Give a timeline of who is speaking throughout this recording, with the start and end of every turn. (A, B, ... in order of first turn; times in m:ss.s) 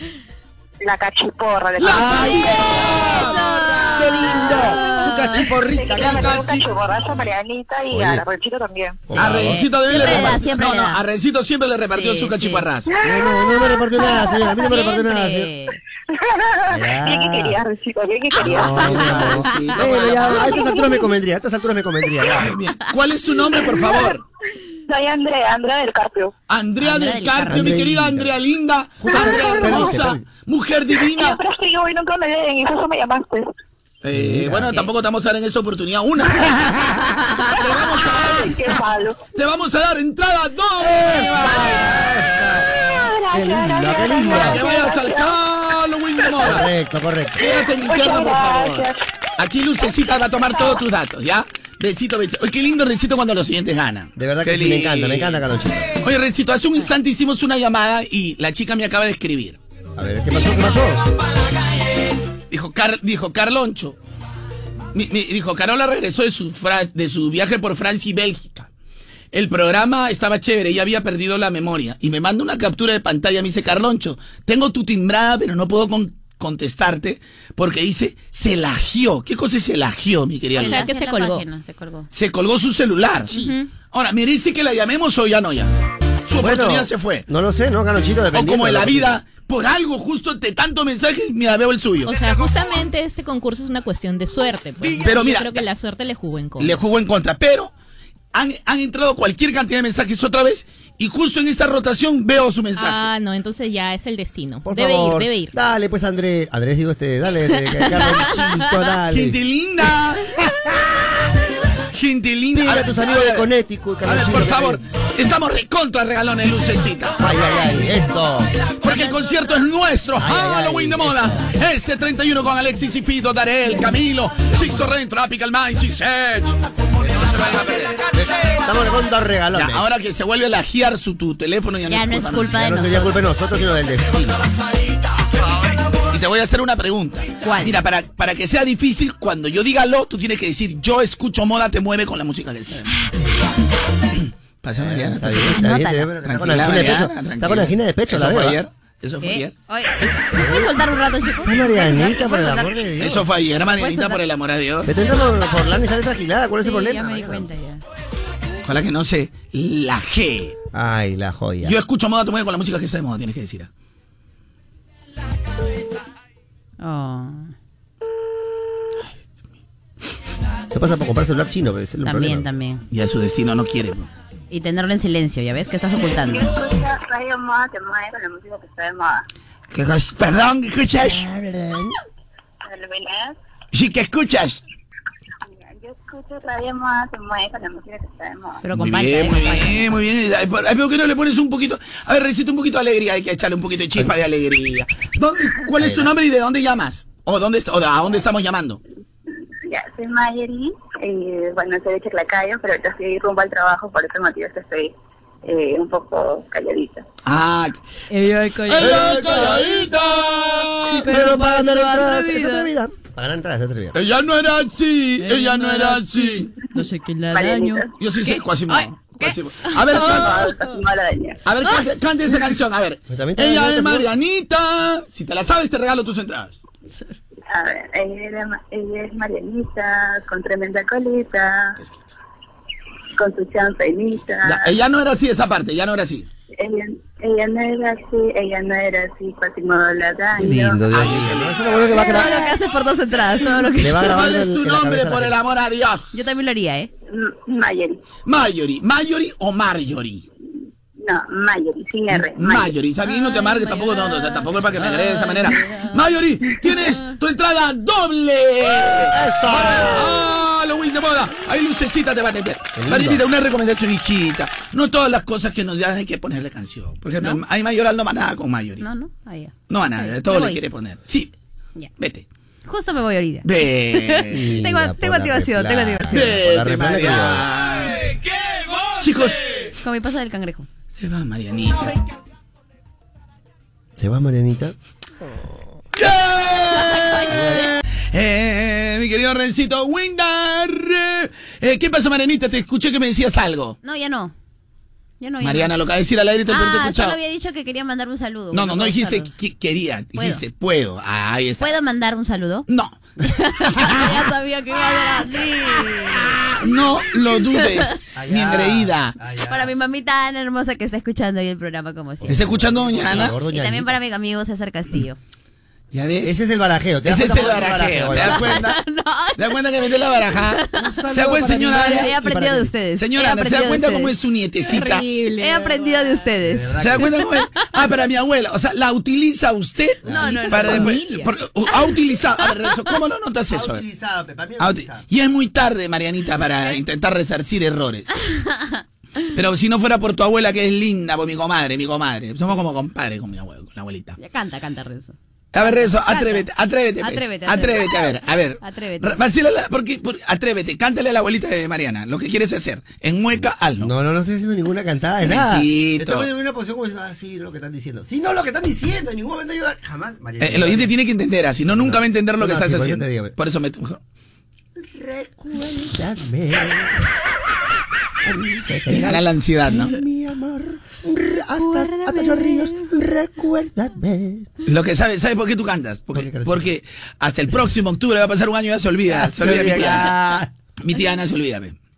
0:00.8-0:02.6 A
0:01.8-0:04.1 B
0:01.8-0:03.4 C
0:03.0-0:05.5 D
0:03.9-0:06.5 C
0:05.8-0:09.0 A
0:06.0-0:06.6 B
0:07.9-0:08.2 C
0:09.1-0:10.4 C
0:09.2-0:12.9 B
0:09.2-0:11.0 D
0:11.9-0:12.6 D
0:13.0-0:15.5 C
0:14.6-0:15.8 D
0:16.5-0:18.8 A
0:16.7-0:17.6 C
0:18.4-0:22.6 C
0:18.6-0:20.5 B
0:18.6-0:20.6 D
0:22.4-0:24.2 B
0:24.9-0:26.3 A
0:26.5-0:31.4 B
0:26.8-0:27.8 D
0:27.5-0:28.3 C
0:29.0-0:30.2 C
0:31.1-0:33.5 A
0:34.0-0:36.7 B
0:34.1-0:34.8 C
0:37.5-0:38.6 B
0:38.0-0:39.2 A
0:39.3-0:42.1 B
0:40.8-0:42.6 C
0:42.8-0:45.3 A
0:43.3-0:44.6 C
0:44.3-0:46.7 B
0:46.4-0:47.5 C
0:47.4-0:55.4 B
0:47.8-0:49.0 A
0:54.2-0:55.9 C
0:56.0-0:59.6 B
1:00.0-1:01.0 C
1:02.5-1:04.0 B
1:04.9-1:08.7 B
1:09.3-1:20.9 B
1:20.6-1:22.1 D
1:20.6-1:21.4 E
1:22.1-1:23.4 B
1:23.3-1:23.6 D
1:23.3-1:23.6 E
1:23.9-1:25.7 B
1:26.2-1:27.2 B
1:26.4-1:29.2 C
1:28.3-1:32.2 B
1:32.0-1:36.8 E
1:35.0-1:35.6 B
1:36.6-1:37.7 B
1:38.3-1:43.1 B
1:42.8-1:45.5 E
1:44.6-1:49.4 C
1:49.1-1:50.3 B
1:51.9-1:53.5 B
1:52.5-1:54.8 C
1:54.0-1:57.3 B
1:57.2-1:58.5 C
1:58.8-2:08.1 B
2:00.2-2:01.4 C
2:08.1-2:09.8 C
2:09.5-2:12.7 B
2:11.9-2:13.2 D
2:12.5-2:14.4 C
2:16.1-2:23.0 B
2:17.4-2:17.8 D
2:24.2-2:25.6 B
2:24.7-2:28.6 C
2:25.4-2:26.1 D
2:26.2-2:29.5 B
2:29.2-2:32.9 D
2:30.3-2:30.7 C
2:31.4-2:33.2 C
2:33.0-2:34.9 B
2:33.8-2:34.2 D
2:34.8-2:37.5 C
2:36.6-2:37.8 D
2:38.6-2:40.6 B
2:40.7-2:41.8 C
2:41.6-2:43.7 B
2:46.8-2:47.5 D
2:50.7-2:52.5 C
2:52.0-2:52.8 D
2:52.9-2:54.1 B
2:54.5-2:56.5 D
2:56.1-2:59.2 F
2:59.7-3:01.2 B
3:01.0-3:01.9 C
3:02.6-3:03.4 F
3:03.7-3:04.6 B
3:05.5-3:08.6 F
3:08.6-3:10.0 D
3:08.7-3:18.8 B
3:15.8-3:16.1 C
3:19.7-3:24.9 F
3:25.4-3:27.0 F
3:27.2-3:27.8 B
3:28.1-3:29.6 D
3:28.7-3:30.9 G
3:28.8-3:29.8 C
3:30.9-3:32.7 D
3:31.0-3:34.0 C
3:33.9-3:36.0 G
3:35.2-3:40.3 D
3:35.3-3:36.5 B
3:37.3-3:37.9 F
3:38.0-3:40.5 B
3:40.0-3:41.4 F
3:41.4-3:46.6 B
3:43.1-3:44.1 C
3:47.5-3:51.8 F
3:53.2-3:54.7 F
3:54.4-3:56.3 B
3:56.6-4:01.0 F
4:00.4-4:02.3 C
4:00.9-4:01.8 B
4:02.0-4:04.2 D
4:03.8-4:05.4 C
4:03.9-4:06.1 B
4:06.1-4:06.9 D
4:07.1-4:08.0 F
4:08.2-4:10.2 B
4:11.0-4:12.7 F
4:12.1-4:28.8 B
4:13.0-4:15.9 D
4:19.1-4:20.2 C
4:22.8-4:23.2 C
4:28.8-4:30.6 D
4:29.7-4:31.3 B
4:32.0-4:32.2 B
4:32.6-4:36.3 D
4:33.4-4:34.6 B
4:34.3-4:37.5 C
4:36.1-4:38.0 B
4:39.0-4:39.6 B
4:39.8-4:40.7 D
4:40.9-4:42.0 B
4:44.0-4:44.7 C
4:46.0-4:53.8 B
4:46.7-4:47.6 D
4:47.3-4:47.7 C
4:53.8-4:54.3 D
4:55.2-4:55.7 D
4:55.4-4:57.2 B
4:56.5-4:59.3 D
4:58.5-5:01.7 B
5:00.2-5:00.4 D
5:01.6-5:02.6 D
5:02.7-5:03.0 B
5:03.2-5:06.4 D
5:03.8-5:04.1 B
5:06.3-5:09.1 B
5:08.2-5:09.7 C
5:09.5-5:12.5 D
5:12.2-5:13.9 C
5:12.3-5:13.4 B
5:13.1-5:15.2 D
5:15.9-5:16.4 B
5:16.2-5:18.6 C
5:17.0-5:18.8 B
5:18.2-5:19.6 D
5:19.4-5:22.1 B
5:20.3-5:20.6 D
5:20.7-5:22.7 C
5:21.7-5:24.1 D
5:23.0-5:25.0 B
5:24.7-5:25.9 E
5:25.4-5:26.8 D
5:26.4-5:27.1 C
5:26.8-5:33.8 B
5:30.0-5:30.9 C
5:30.1-5:31.2 D
5:30.7-5:31.2 E
5:33.5-5:35.0 C
5:34.6-5:38.1 B
5:38.3-5:38.8 D
5:39.3-5:44.2 B
5:44.2-5:46.5 D
5:45.5-5:53.9 B
5:47.0-5:49.2 D
5:53.8-6:00.9 C
5:55.2-5:56.3 B
6:00.4-6:04.0 B
6:01.6-6:03.3 C
6:04.8-6:07.1 C
6:08.2-6:14.5 C
6:08.9-6:10.0 B
6:11.6-6:12.7 D
6:14.6-6:20.1 B
6:16.1-6:16.7 C
6:19.0-6:20.5 C
6:20.8-6:21.8 B